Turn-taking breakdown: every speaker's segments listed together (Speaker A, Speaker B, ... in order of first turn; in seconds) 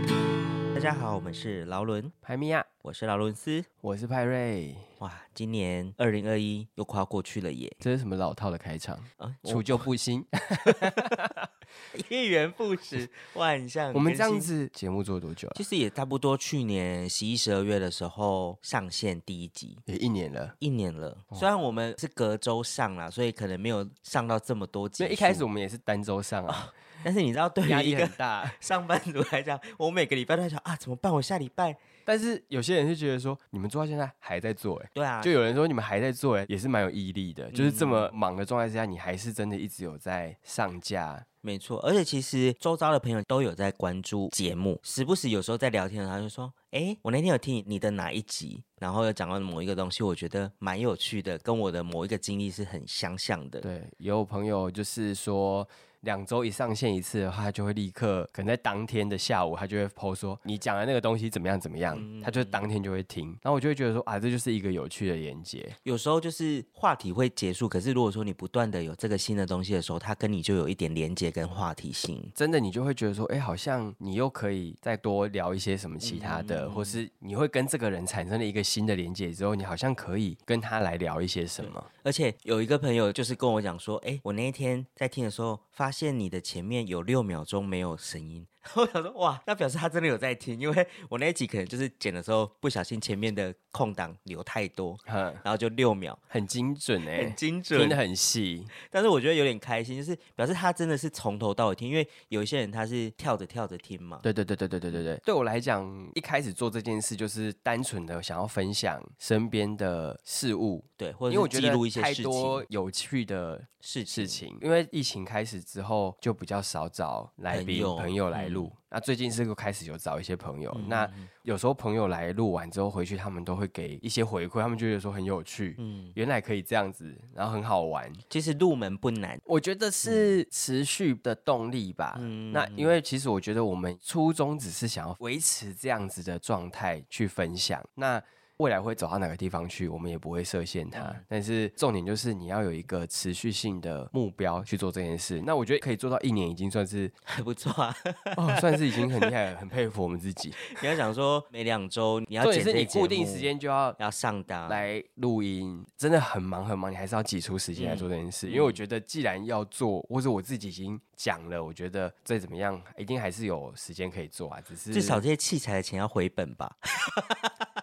Speaker A: 0.7-2.1, 2.8-3.7, 5.0-7.8, 9.2-9.9, 10.6-11.2, 11.9-14.5, 15.5-19.8, 20.6-25.4, 26.5-31.8, 34.9-35.3, 37.5-38.1, 41.4-53.7, 61.9-62.7, 65.8-72.3, 76.0-77.0, 81.6-96.2, 97.1-98.0, 98.8-104.3, 111.0-112.7, 113.8-114.4, 117.5-118.7, 120.7-121.3, 125.8-126.2, 128.3-129.4, 130.0-130.4, 132.1-132.9, 140.9-141.2, 147.2-149.3, 150.7-154.9, 157.7-158.8, 164.9-167.5
Speaker B: 2.2-2.7, 3.8-4.9, 7.8-11.5, 13.9-15.6, 19.9-20.5, 25.0-26.7, 27.6-28.6, 32.0-41.2, 53.6-65.8, 72.3-81.9, 95.1-95.4, 96.3-98.7, 104.2-128.2, 129.4-147.1, 148.3-150.7, 152.4-154.0, 154.7-165.2